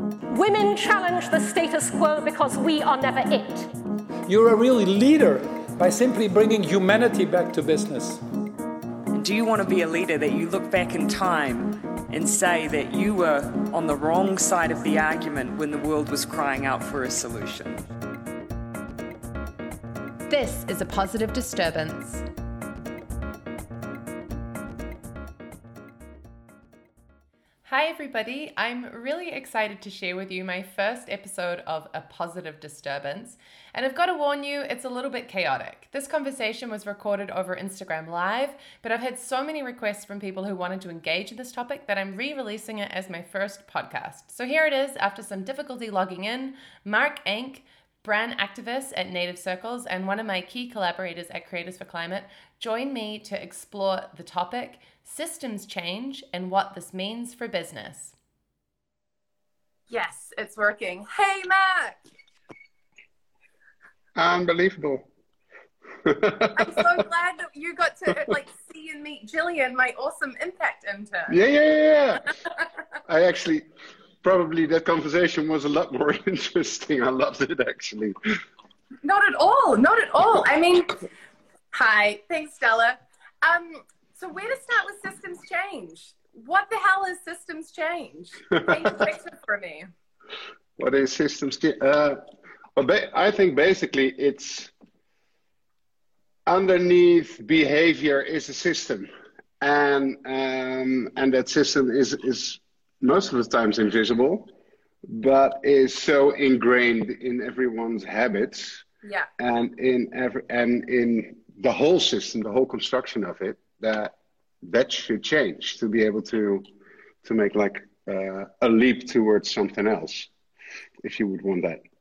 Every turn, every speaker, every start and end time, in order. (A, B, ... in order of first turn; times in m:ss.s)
0:00.3-0:03.7 A
0:04.3-0:08.2 B
0:09.1-0:17.9 C
0:20.3-0:22.2 D
0:27.6-0:58.1 D
0:59.9-1:02.0 D
1:04.2-1:05.1 E
1:06.0-1:06.8 E
1:06.5-1:11.4 D
1:11.3-1:12.3 E
1:13.1-1:13.6 E
1:14.2-1:18.2 E
1:19.0-1:21.0 D
1:21.7-1:29.9 D
1:28.6-1:28.9 E
1:30.8-1:32.2 E
1:32.8-1:34.7 E
1:36.4-1:39.1 E
1:39.6-1:44.5 E
1:45.0-1:48.8 E
1:49.0-1:49.3 D
1:49.4-1:56.7 E
1:57.2-2:00.3 E
2:01.0-2:01.8 E